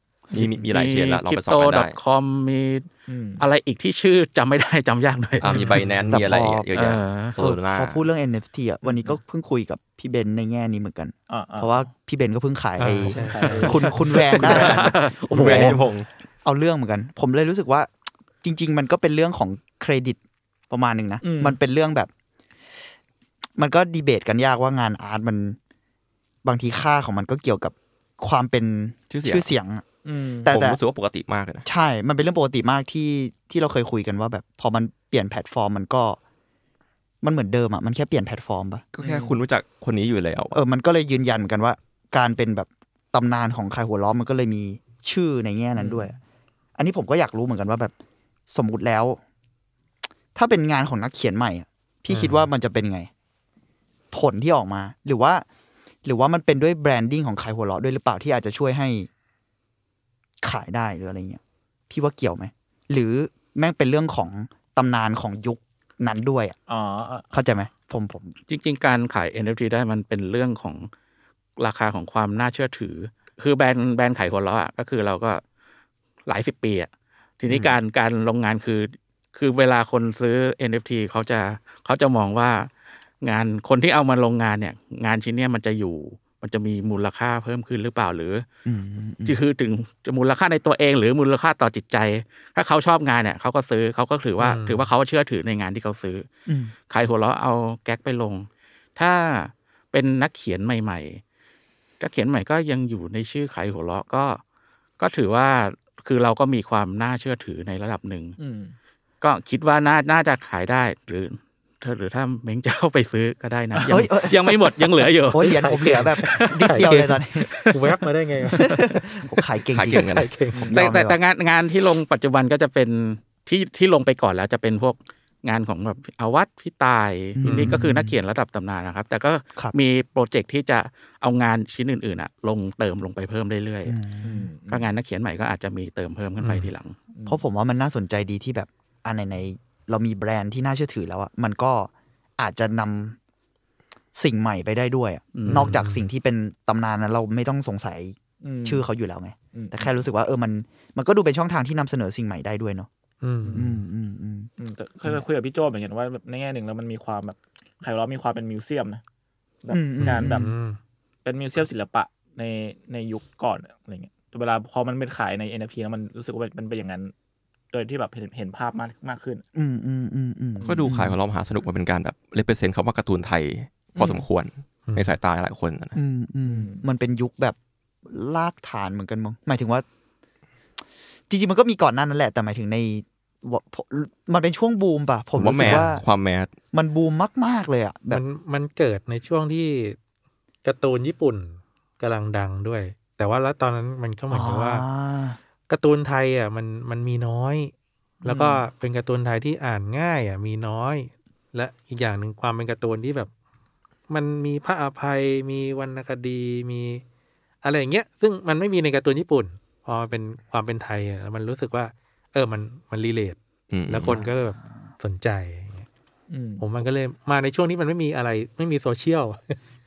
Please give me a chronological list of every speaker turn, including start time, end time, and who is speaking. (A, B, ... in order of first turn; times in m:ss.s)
0:00.3-0:02.0 A
0:00.7-0:02.9 B
0:03.1-0:03.4 C
0:03.4-0:05.7 B
0:05.4-0:08.0 A
0:05.5-0:06.2 D
0:06.1-0:06.6 E
0:06.7-0:07.4 B
0:07.4-0:15.9 E
0:08.8-0:09.2 C
0:11.3-0:11.9 C
0:12.8-0:14.2 D
0:13.1-0:14.0 C
0:14.4-0:15.6 B
0:14.6-0:16.1 A
0:16.4-0:17.9 E
0:18.4-0:20.2 E
0:20.7-0:22.1 E
0:21.2-0:21.6 C
0:23.6-0:25.6 E
0:26.4-0:29.8 E
0:29.1-0:29.5 A
0:30.0-0:30.5 C
0:30.4-0:30.8 E
0:30.5-0:31.7 A
0:31.7-0:36.2 E
0:37.2-0:38.8 E
0:39.0-0:40.6 A
0:39.0-0:39.4 C
0:40.5-0:46.2 E
0:46.8-0:47.9 E
0:48.5-0:49.2 E
0:50.4-0:53.1 E
0:52.1-0:52.5 D
0:54.1-0:55.4 E
0:56.0-0:59.1 E
1:00.4-1:06.6 E
1:06.7-1:07.3 C
1:07.3-1:08.4 E
1:08.5-1:10.9 B
1:11.6-1:15.4 B
1:16.3-1:22.7 B
1:17.5-1:17.8 E
1:23.2-1:28.4 B
1:28.6-1:29.4 E
1:29.2-1:36.3 B
1:34.4-1:34.9 D
1:36.5-1:36.7 E
1:36.9-1:41.2 B
1:42.0-1:44.4 B
1:45.0-1:48.4 B
1:48.4-1:48.8 C
1:49.2-1:55.6 B
1:53.9-1:54.6 E
1:55.3-1:57.6 E
1:55.5-1:58.8 D
1:56.2-1:56.7 B
1:58.5-2:00.1 E
1:59.7-2:00.3 A
1:59.9-2:00.8 D
2:00.5-2:00.8 C
2:00.7-2:01.2 E
2:00.7-2:14.0 B
2:07.4-2:08.2 E
2:07.4-2:07.8 D
2:13.8-2:14.5 E
2:14.2-2:14.9 C
2:14.7-2:17.0 B
2:16.4-2:16.7 D
2:17.1-2:17.4 C
2:17.3-2:23.2 E
2:24.2-2:32.9 E
2:25.4-2:25.8 B
2:25.4-2:26.1 D
2:28.4-2:28.9 C
2:29.5-2:29.9 C
2:33.2-2:33.7 D
2:33.4-2:33.7 C
2:33.5-2:34.5 E
2:34.6-2:39.0 C
2:39.6-2:40.5 C
2:39.7-2:40.5 E
2:40.0-2:40.8 D
2:41.2-2:47.1 C
2:47.7-2:49.4 C
2:49.6-2:51.2 E
2:50.6-2:56.0 A
2:54.9-2:55.2 D
2:56.0-2:59.8 E
2:56.5-2:56.8 C
3:01.3-3:06.0 E
3:05.4-3:06.5 A
3:06.7-3:08.2 E
3:08.1-3:10.0 D
3:10.6-3:14.8 D
3:14.3-3:15.4 E
3:15.7-3:17.7 D
3:18.2-3:23.3 D
3:18.3-3:18.6 E
3:24.1-3:27.0 D
3:27.6-3:35.9 D
3:33.7-3:34.2 A
3:34.1-3:34.3 E
3:36.3-3:36.6 C
3:36.6-3:39.6 D